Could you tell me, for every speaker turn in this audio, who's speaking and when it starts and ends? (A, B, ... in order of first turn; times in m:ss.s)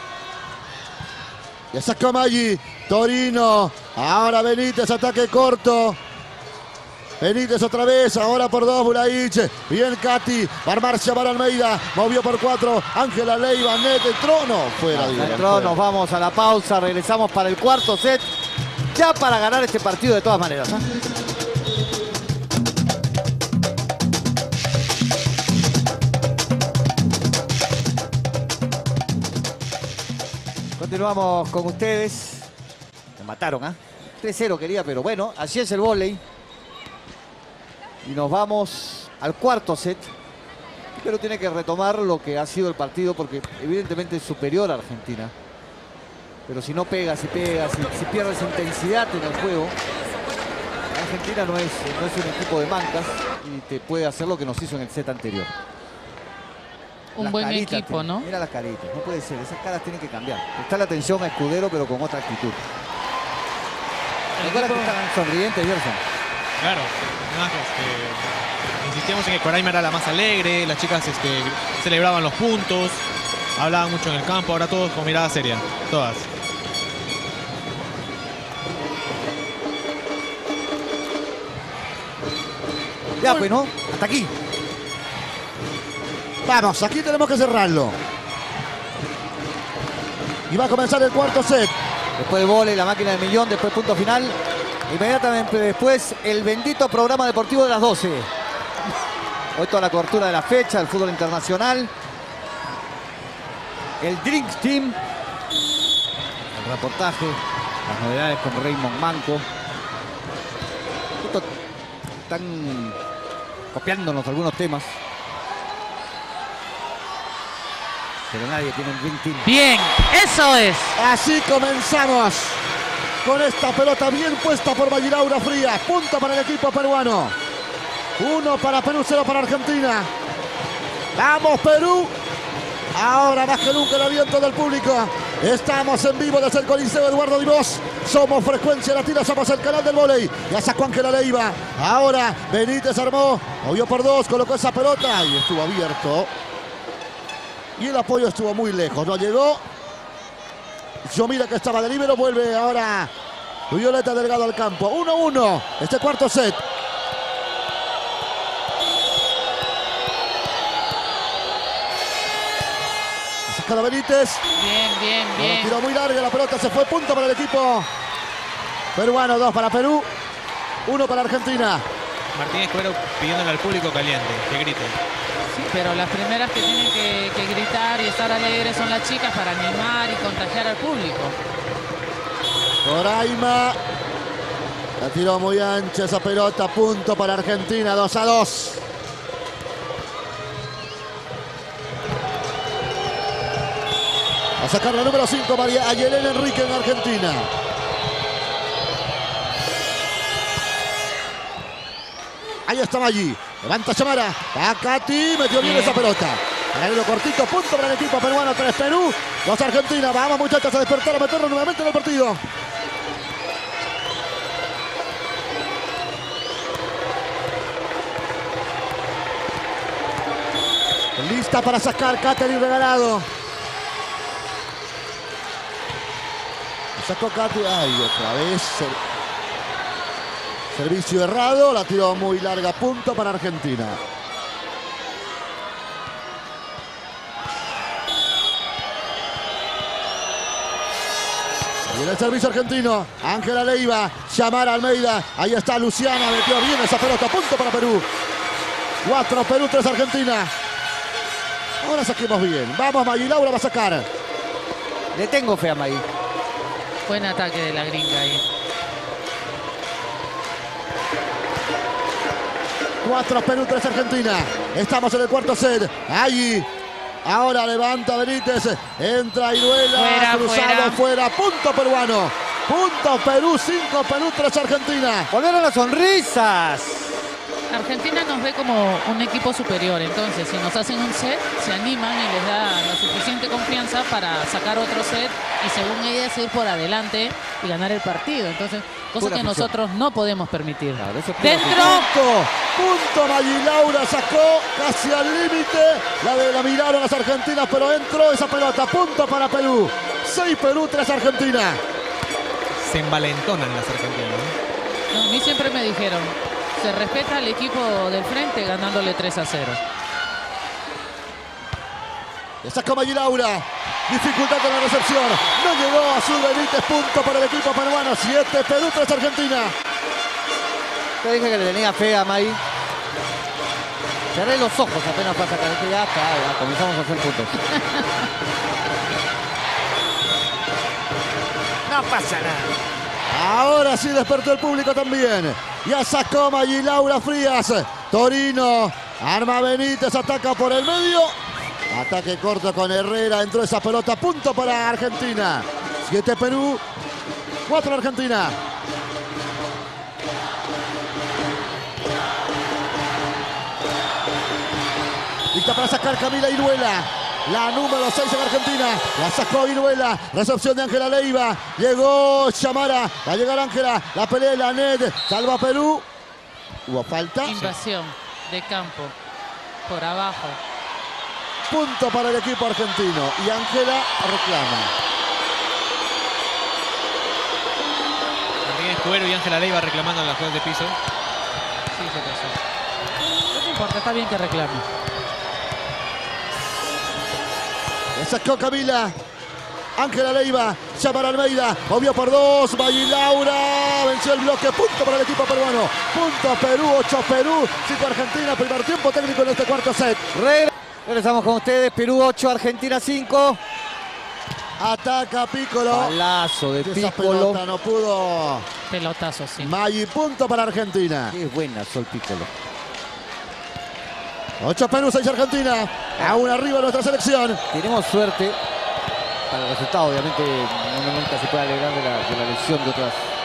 0:01.7-0:06.0 A
0:07.2-0:15.8 A
0:14.9-0:18.3 B
0:18.9-0:20.8 B
0:30.8-0:32.5 B
0:33.2-0:36.2 B
0:38.0-0:40.1 B
0:41.0-0:45.3 B
0:46.5-0:49.8 B
0:50.9-0:55.5 B
0:57.2-0:58.3 C
0:57.2-1:02.6 B
1:04.4-1:04.9 C
1:04.4-1:06.0 B
1:06.6-1:08.3 D
1:08.8-1:13.0 D
1:13.6-1:16.3 D
1:23.2-1:24.3 B
1:23.2-1:23.5 A
1:26.4-1:28.0 A
1:30.5-1:31.7 A
1:32.2-1:38.3 B
1:39.5-1:41.9 B
1:44.0-1:45.0 B
1:46.5-1:49.5 B
1:51.2-1:51.5 B
1:52.3-1:53.0 B
1:53.7-1:55.0 B
1:58.3-1:59.5 B
1:59.4-2:00.9 C
2:01.0-2:02.6 A
2:03.2-2:07.4 A
2:08.2-2:10.1 A
2:11.2-2:12.1 A
2:12.9-2:26.3 A
2:27.8-2:29.6 A
2:31.0-2:33.1 A
2:33.7-2:36.6 A
2:43.5-2:44.4 A
2:44.6-2:45.8 C
2:45.4-2:47.9 A
2:48.9-2:50.1 A
2:50.9-2:51.8 A
2:52.3-2:55.0 D
2:55.5-3:01.4 C
3:02.8-3:03.8 A
3:05.0-3:08.8 A
3:14.6-3:17.5 A
3:22.6-3:32.4 A
3:25.6-3:26.0 C
3:41.2-3:43.3 A
3:47.0-3:49.0 A
3:50.7-3:54.0 A
4:01.9-4:08.1 A
4:09.0-4:10.5 A
4:11.8-4:14.1 A
4:15.1-4:16.0 B
4:17.1-4:18.4 C
4:23.0-4:26.7 A
4:27.2-4:35.3 A
4:29.9-4:31.0 C
4:35.3-4:37.2 B
4:37.7-4:52.1 C
4:49.2-4:49.7 B
4:51.0-4:52.0 B
4:51.7-5:01.8 A
5:02.8-5:04.5 D
5:05.1-5:09.8 C
5:12.6-5:19.7 A
5:21.2-5:22.6 B
5:24.3-5:27.6 B
5:31.9-5:32.6 B
5:33.3-5:41.4 A
5:41.9-5:46.8 A
5:47.6-5:48.6 A
5:55.5-6:06.0 A
6:06.9-6:07.7 A
6:07.4-6:09.1 C
6:09.8-6:10.6 C
6:11.7-6:14.9 A
6:18.6-6:21.0 D
6:21.9-6:22.5 C
6:23.5-6:24.8 C
6:28.1-6:29.1 A
6:30.0-6:40.2 A
6:40.3-6:43.6 B
6:44.8-6:46.2 A
6:45.9-6:47.6 B
6:46.8-6:48.6 A
6:48.9-6:49.7 C
6:49.6-6:51.4 A
6:51.3-6:52.5 B
6:54.6-6:57.6 A
6:57.7-6:58.6 B
6:59.5-7:03.3 B